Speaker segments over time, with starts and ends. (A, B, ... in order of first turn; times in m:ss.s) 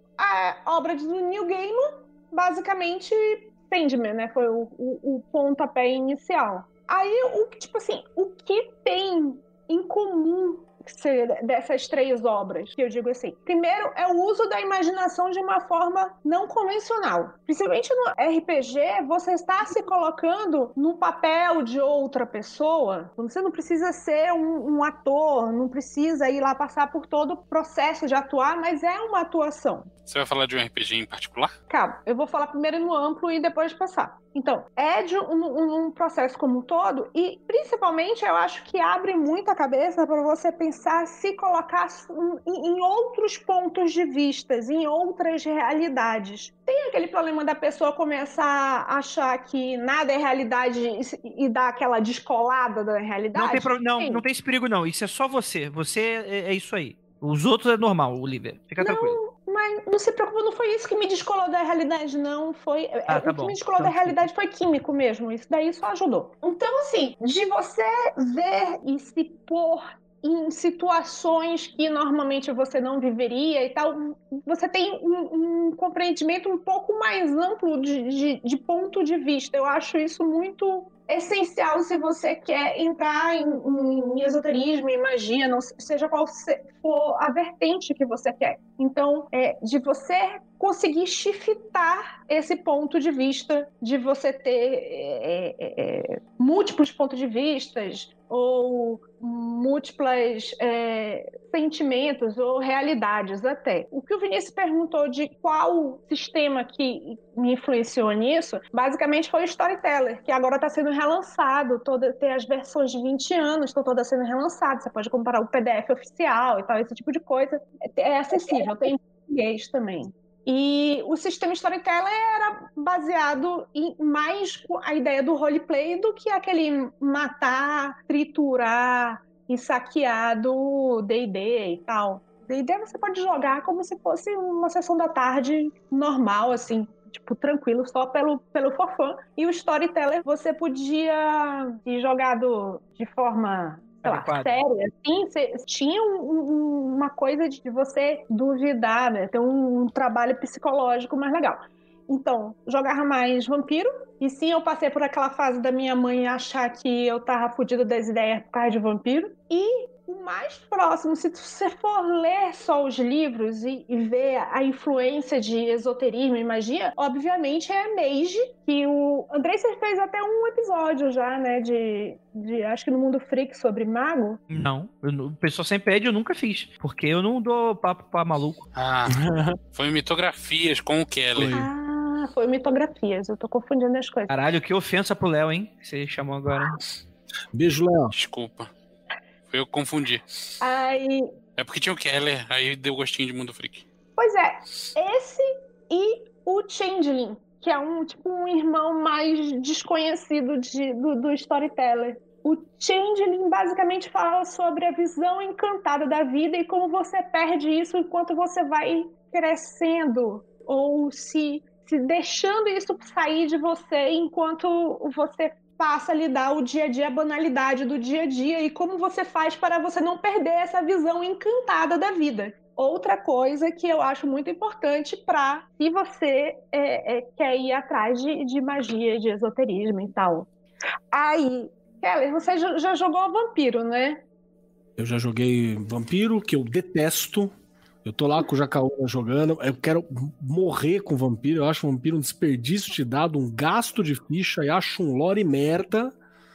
0:00.2-0:29.9 A
0:30.1-0:31.5 B
0:31.7-0:54.2 A
0:53.4-0:59.2 C
0:58.8-2:54.4 A
1:03.1-1:04.3 C
2:24.0-2:24.6 C
2:54.5-2:58.7 C
2:58.7-2:59.2 B
2:59.1-2:59.6 D
2:59.7-3:01.6 B
3:01.3-3:01.7 D
3:01.5-3:04.3 A
3:04.3-3:06.8 C
3:07.5-3:08.2 D
3:08.1-3:08.7 B
3:09.5-3:10.2 B
3:10.6-3:11.2 A
3:11.6-3:13.8 B
3:14.2-3:50.5 A
3:51.1-3:54.2 A
3:55.0-3:57.5 D
3:58.0-4:06.2 D